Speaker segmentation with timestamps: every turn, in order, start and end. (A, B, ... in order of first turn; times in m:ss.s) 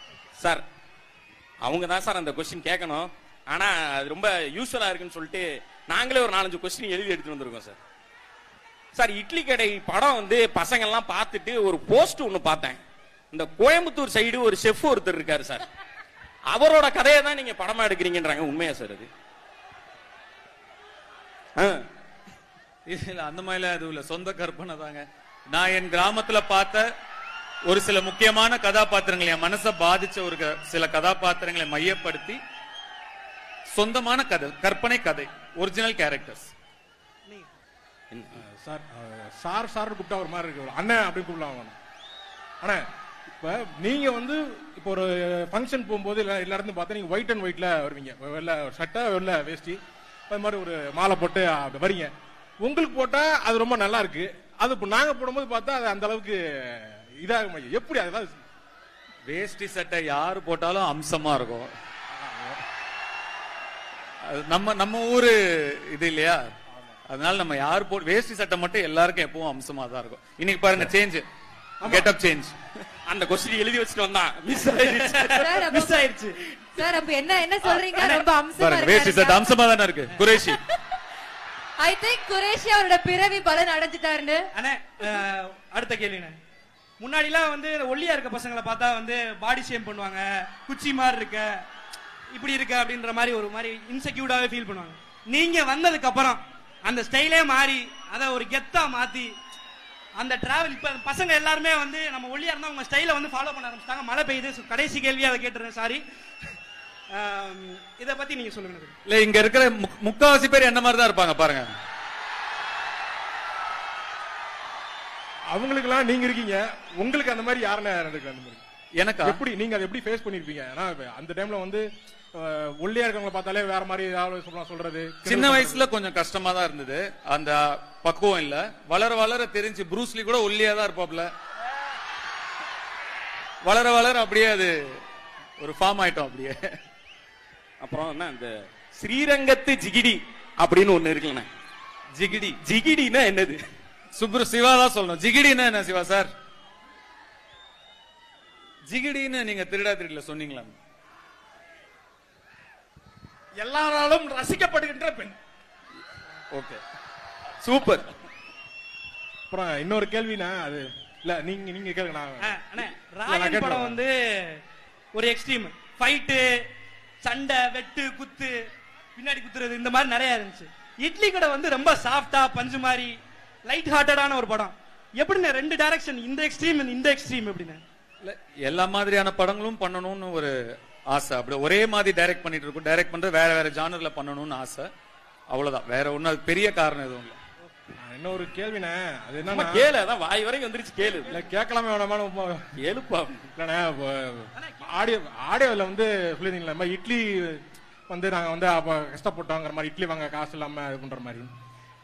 0:00.4-0:00.6 A
0:01.6-0:07.8 A
0:08.9-0:12.8 A
0:13.3-0:15.6 A
0:16.5-0:19.1 A
0:21.6-0:21.8 A
0:22.9-0:26.8 B
0:27.7-0:32.4 B
0:33.7-0:36.5 B
0:38.1-0:38.4 A
0:38.4-0:41.8 C
0:42.6-0:49.8 C
0:50.3-0:52.1 C
0:52.6-0:58.3 C
0:59.3-1:01.7 B
1:02.1-1:02.6 C
1:04.2-1:06.4 B
1:06.7-1:07.0 C
1:07.1-1:11.2 B
1:11.8-1:12.1 C
1:11.8-1:12.5 B
1:13.0-1:15.5 A
1:15.1-1:17.0 D
1:15.4-1:16.1 E
1:16.8-1:19.5 E
1:17.6-1:18.3 D
1:18.6-1:20.6 B
1:21.8-1:24.5 E
1:24.5-1:26.4 D
1:27.0-1:31.6 D
1:32.3-1:39.3 D
1:40.2-1:46.6 D
1:47.1-1:49.0 D
1:49.1-1:51.7 B
1:55.5-1:58.6 C
1:59.0-1:59.4 B
1:59.2-2:05.9 C
2:05.2-2:11.3 B
2:13.6-2:15.0 B
2:15.6-2:16.6 B
2:17.8-2:21.5 A
2:22.2-2:22.5 B
2:22.4-2:23.6 A
2:24.1-2:26.3 B
2:28.8-2:30.7 B
2:33.6-2:35.3 C
2:36.5-2:36.8 B
2:37.6-2:38.0 A
2:39.5-2:44.0 C
2:42.4-2:44.6 D
2:45.1-2:46.7 D
2:47.2-2:48.6 D
2:49.2-2:53.1 D
2:53.6-2:57.8 D
2:58.2-3:00.5 B
3:01.1-3:04.9 B
3:05.5-3:07.4 B
3:08.0-3:09.9 C
3:09.4-3:11.4 A
3:11.1-3:11.4 D
3:11.3-3:12.7 C
3:12.8-3:13.5 A
3:13.5-3:21.5 C
3:14.6-3:14.9 D